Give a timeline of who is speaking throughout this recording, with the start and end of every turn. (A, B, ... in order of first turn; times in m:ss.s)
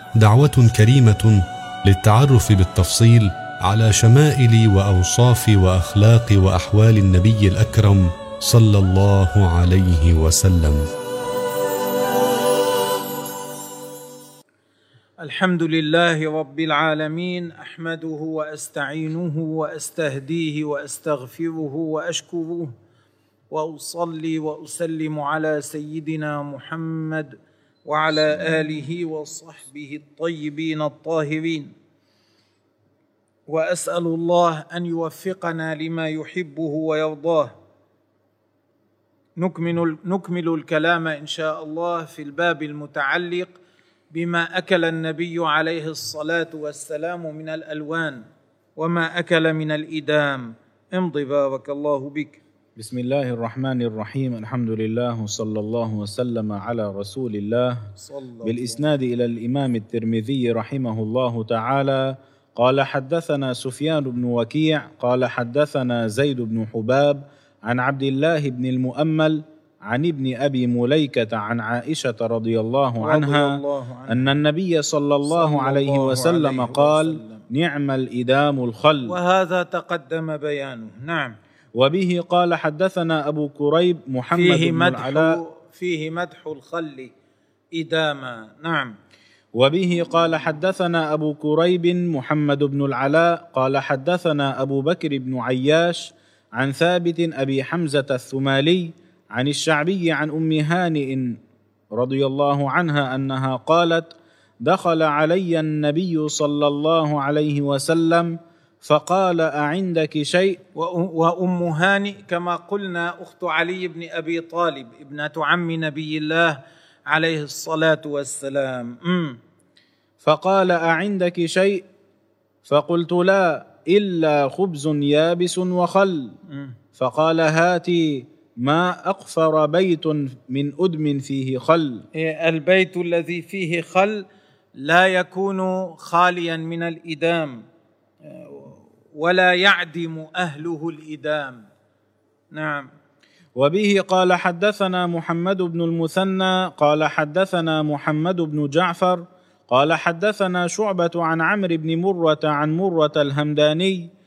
0:00.2-0:10.8 A
0:15.2-0:22.7 B
0:23.5-0:31.7 B
0:33.5-0:37.5 B
0:39.4-0:43.6 B
0:44.1-0:48.2 B
0:48.8-0:52.4 B
0:52.8-0:57.8 C
0:58.0-0:58.8 B
0:58.4-1:13.5 C
1:13.0-1:14.3 B
1:14.1-1:19.1 C
1:15.2-1:17.4 B
1:19.0-1:21.3 B
1:21.8-1:25.4 C
1:24.3-1:27.1 B
1:27.7-1:28.9 B
1:29.6-1:41.4 C
1:42.0-1:50.6 C
1:50.8-1:59.4 B
2:00.2-2:01.8 C
2:02.6-2:06.3 C
2:06.5-2:06.7 B
2:07.0-2:12.0 C
2:12.1-2:17.6 B
2:18.3-2:21.6 B
2:22.5-2:22.9 B
2:23.6-2:34.1 C